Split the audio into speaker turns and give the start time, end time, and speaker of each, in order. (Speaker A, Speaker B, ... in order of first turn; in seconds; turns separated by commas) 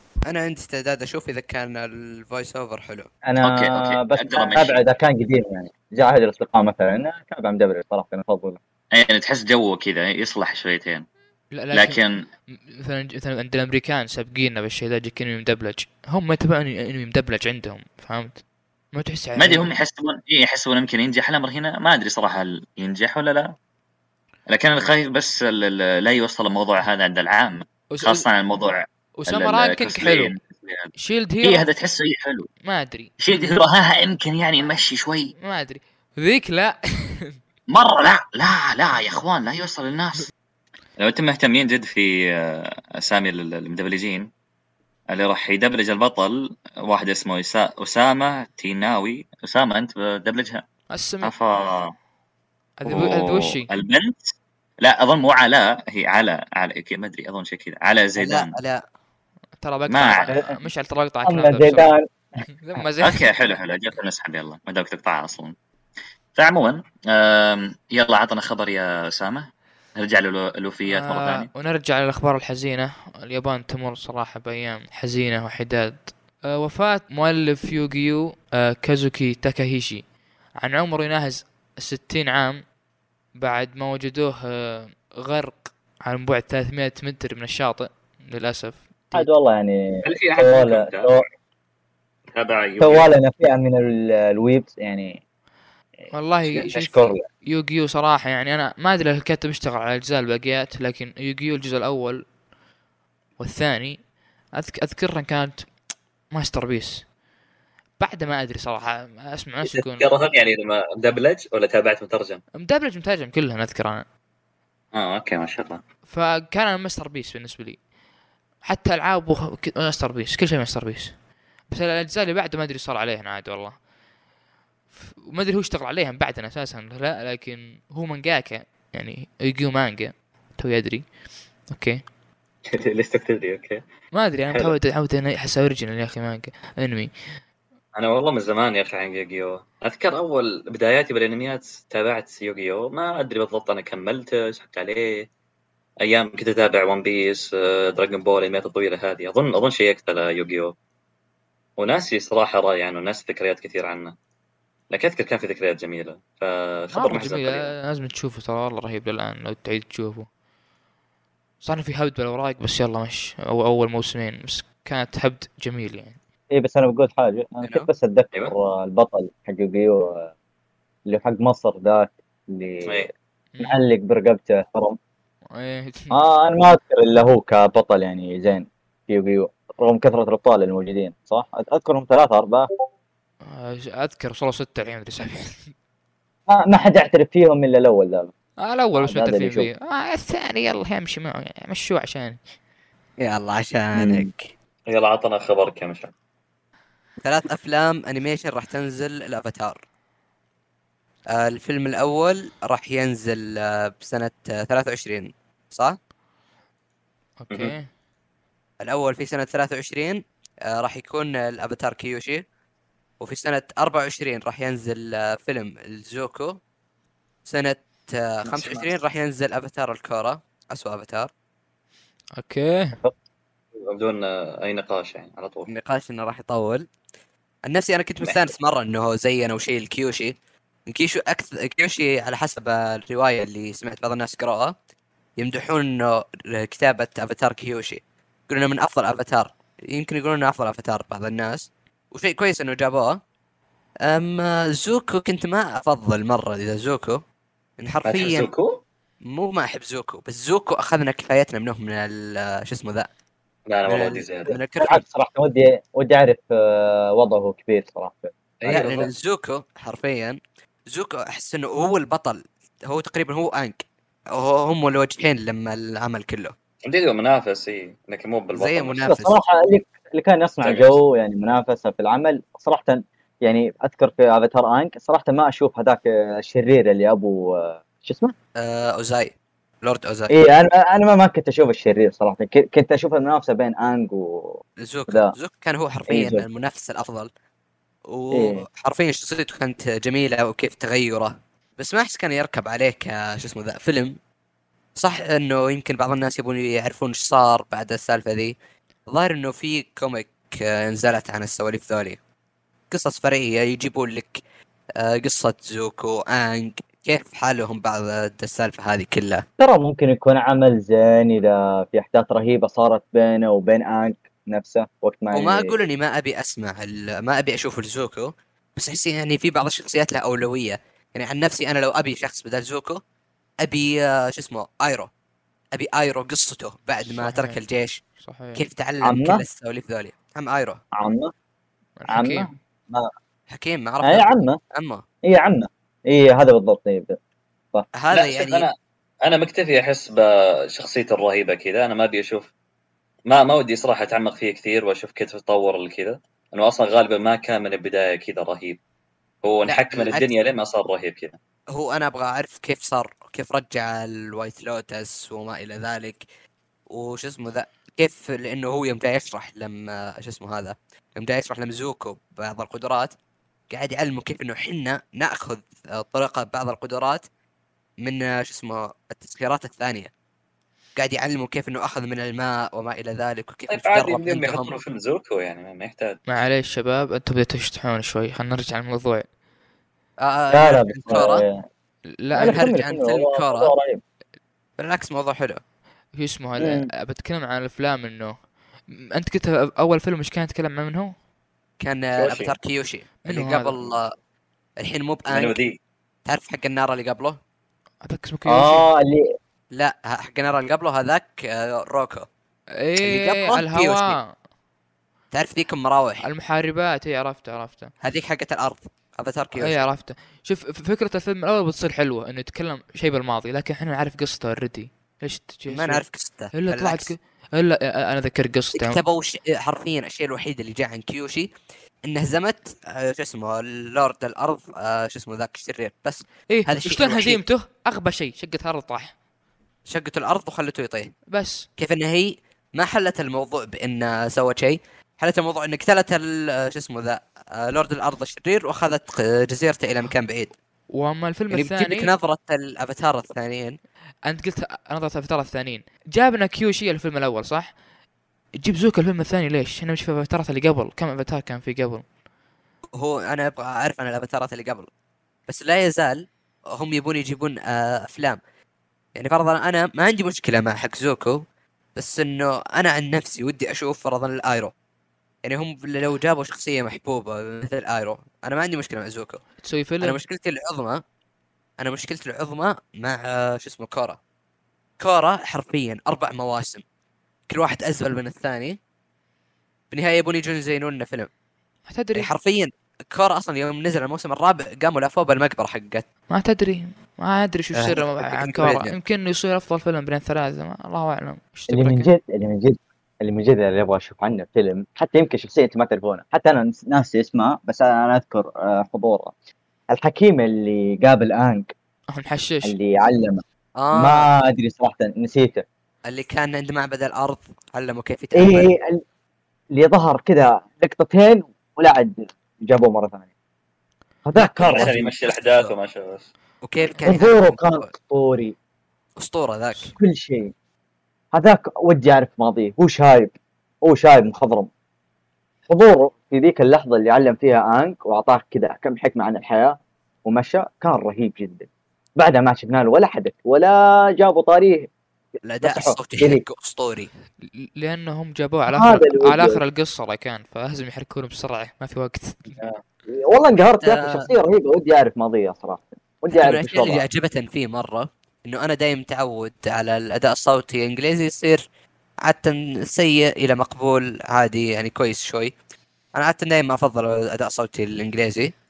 Speaker A: 0.3-3.1, Speaker B: 3.2-8.6, Speaker C: 3.4-4.8, Speaker C: 8.9-11.1, Speaker D: 11.5-12.0, Speaker C: 11.7-12.2, Speaker D: 12.5-18.4, Speaker D: 18.9-19.7, Speaker C: 19.4-23.5, Speaker C: 24.5-30.9, Speaker D: 27.9-28.3, Speaker D: 29.2-30.3, Speaker D: 30.9-31.6, Speaker C: 31.4-32.5, Speaker D: 32.6-33.3, Speaker C: 33.2-35.3, Speaker D: 35.4-37.4, Speaker C: 37.7-40.3, Speaker C: 41.0-44.3, Speaker C: 45.1-50.6, Speaker D: 50.9-51.3, Speaker C: 51.2-51.9, Speaker D: 52.8-53.7, Speaker C: 52.9-58.6, Speaker A: 58.2-58.8, Speaker D: 59.6-61.9, Speaker C: 59.9-60.4, Speaker B: 61.2-62.1, Speaker D: 62.5-63.6, Speaker C: 63.0-65.6, Speaker C: 66.3-71.5, Speaker D: 70.9-82.7, Speaker D: 83.4-89.3, Speaker B: 89.1-91.3, Speaker C: 90.0-91.2, Speaker C: 92.3-93.1, Speaker B: 92.8-95.2, Speaker D: 96.1-102.2, Speaker B: 96.5-97.2, Speaker D: 103.4-105.8, Speaker D: 106.3-107.1, Speaker D: 108.0-110.1, Speaker C: 109.6-112.4, Speaker D: 112.6-114.0, Speaker C: 114.9-115.8, Speaker D: 116.1-117.8, Speaker D: 118.6-121.2, Speaker D: 121.7-123.8, Speaker D: 124.9-132.1, Speaker C: 132.7-133.8, Speaker D: 134.1-137.1, Speaker C: 137.9-145.3, Speaker C: 146.0-150.7, Speaker C: 151.8-154.2, Speaker C: 154.9-157.7, Speaker D: 156.9-160.3, Speaker D: 161.6-166.2, Speaker B: 166.5-170.3, Speaker A: 167.6-167.9, Speaker B: 171.1-173.1, Speaker C: 172.8-173.1, Speaker D: 173.6-173.8, Speaker B: 173.6-175.0, Speaker D: 175.5-176.2, Speaker B: 176.1-182.7, Speaker D: 183.4-185.7, Speaker B: 186.5-188.3, Speaker D: 188.6-192.4, Speaker B: 188.9-189.7, Speaker A: 193.2-194.5, Speaker B: 193.9-194.3, Speaker C: 194.9-196.1, Speaker A: 197.2-199.8, Speaker A: 201.3-206.0, Speaker D: 207.4-207.9, Speaker A: 208.8-210.2, Speaker A: 210.7-212.4, Speaker A: 213.2-216.6, Speaker A: 217.4-221.3, Speaker C: 218.5-218.9, Speaker D: 222.4-223.0, Speaker C: 223.9-225.7, Speaker A: 225.7-226.8, Speaker A: 227.7-230.3, Speaker C: 228.2-228.5, Speaker A: 230.9-234.7, Speaker A: 235.4-243.2, Speaker A: 244.1-247.2, Speaker A: 247.8-248.5, Speaker C: 248.0-248.8, Speaker A: 249.2-253.1, Speaker C: 253.7-254.6, Speaker A: 253.9-255.0, Speaker B: 254.5-259.1, Speaker C: 258.6-259.1, Speaker A: 258.6-260.4, Speaker A: 260.9-266.6, Speaker C: 266.9-269.0, Speaker A: 268.5-269.4, Speaker B: 269.1-278.3, Speaker C: 270.6-271.0, Speaker A: 278.6-280.3, Speaker B: 280.3-284.5, Speaker A: 284.8-287.3, Speaker B: 286.1-286.4, Speaker A: 288.1-294.1, Speaker B: 288.3-288.6, Speaker A: 295.0-298.5, Speaker A: 299.1-302.2, Speaker A: 302.9-304.4, Speaker A: 305.0-309.4, Speaker B: 309.6-315.8, Speaker A: 315.3-323.0, Speaker A: 323.6-325.1, Speaker A: 325.7-328.0, Speaker D: 327.1-327.6, Speaker D: 328.2-328.6, Speaker A: 328.6-330.8, Speaker B: 329.0-329.4, Speaker B: 331.0-331.3, Speaker D: 332.0-332.5, Speaker B: 332.1-333.1, Speaker A: 333.5-335.0, Speaker B: 334.0-334.6, Speaker B: 335.3-337.2, Speaker A: 338.0-338.7, Speaker C: 338.1-338.7, Speaker C: 339.2-342.5, Speaker C: 343.3-348.8, Speaker C: 349.4-351.4, Speaker A: 349.7-350.3, Speaker A: 351.7-356.2, Speaker A: 356.9-363.1, Speaker A: 363.7-367.2, Speaker A: 368.0-370.1, Speaker A: 370.9-374.8, Speaker C: 373.7-376.2, Speaker D: 376.3-379.3, Speaker A: 380.2-381.4, Speaker B: 380.5-381.6, Speaker D: 382.2-382.6, Speaker B: 382.3-384.0, Speaker A: 382.4-383.7, Speaker A: 384.8-385.6, Speaker D: 386.1-391.1, Speaker B: 386.6-386.9, Speaker A: 391.8-394.1, Speaker C: 392.2-392.6, Speaker D: 393.2-393.9, Speaker A: 394.8-395.6, Speaker C: 395.3-395.8, Speaker A: 396.3-397.4, Speaker D: 398.0-398.9, Speaker B: 398.4-399.4, Speaker A: 399.7-402.3, Speaker D: 402.8-404.3, Speaker A: 403.0-404.2, Speaker A: 405.3-406.2, Speaker D: 406.2-407.9, Speaker A: 408.0-409.8, Speaker D: 409.6-419.0, Speaker A: 415.7-417.1, Speaker A: 418.7-421.5, Speaker A: 422.1-427.4, Speaker D: 426.5-429.2, Speaker A: 429.9-431.2, Speaker D: 431.3-431.7, Speaker A: 431.8-440.5, Speaker D: 440.9-442.1, Speaker A: 441.5-443.8, Speaker D: 444.3-447.8, Speaker D: 448.6-452.1, Speaker A: 452.9-454.9, Speaker A: 455.5-458.4, Speaker A: 459.2-461.4, Speaker A: 461.9-464.7, Speaker A: 465.5-469.4, Speaker D: 469.6-470.2, Speaker A: 470.0-471.0, Speaker A: 471.8-474.2, Speaker A: 475.0-476.8, Speaker A: 477.5-478.8, Speaker A: 479.9-481.3, Speaker D: 481.9-482.3, Speaker A: 482.1-486.1, Speaker D: 486.3-492.1, Speaker A: 487.7-489.0, Speaker B: 491.7-499.3, Speaker B: 499.9-501.7, Speaker D: 502.1-502.7, Speaker B: 502.6-503.4, Speaker A: 503.8-504.3, Speaker B: 503.9-505.6, Speaker A: 506.1-508.7, Speaker B: 508.3-509.0, Speaker B: 509.7-513.2, Speaker B: 514.2-515.1, Speaker C: 514.4-516.3, Speaker A: 514.6-515.7, Speaker A: 516.6-517.9, Speaker B: 517.0-518.5, Speaker A: 519.2-519.9, Speaker B: 519.8-520.5, Speaker B: 521.3-523.3, Speaker B: 523.9-524.7, Speaker B: 525.7-534.9, Speaker A: 535.5-537.1, Speaker B: 535.6-536.4, Speaker D: 537.4-542.5, Speaker B: 538.7-539.6, Speaker B: 542.6-547.0, Speaker A: 543.8-544.3, Speaker A: 546.3-551.6, Speaker A: 552.3-555.5, Speaker A: 556.2-558.5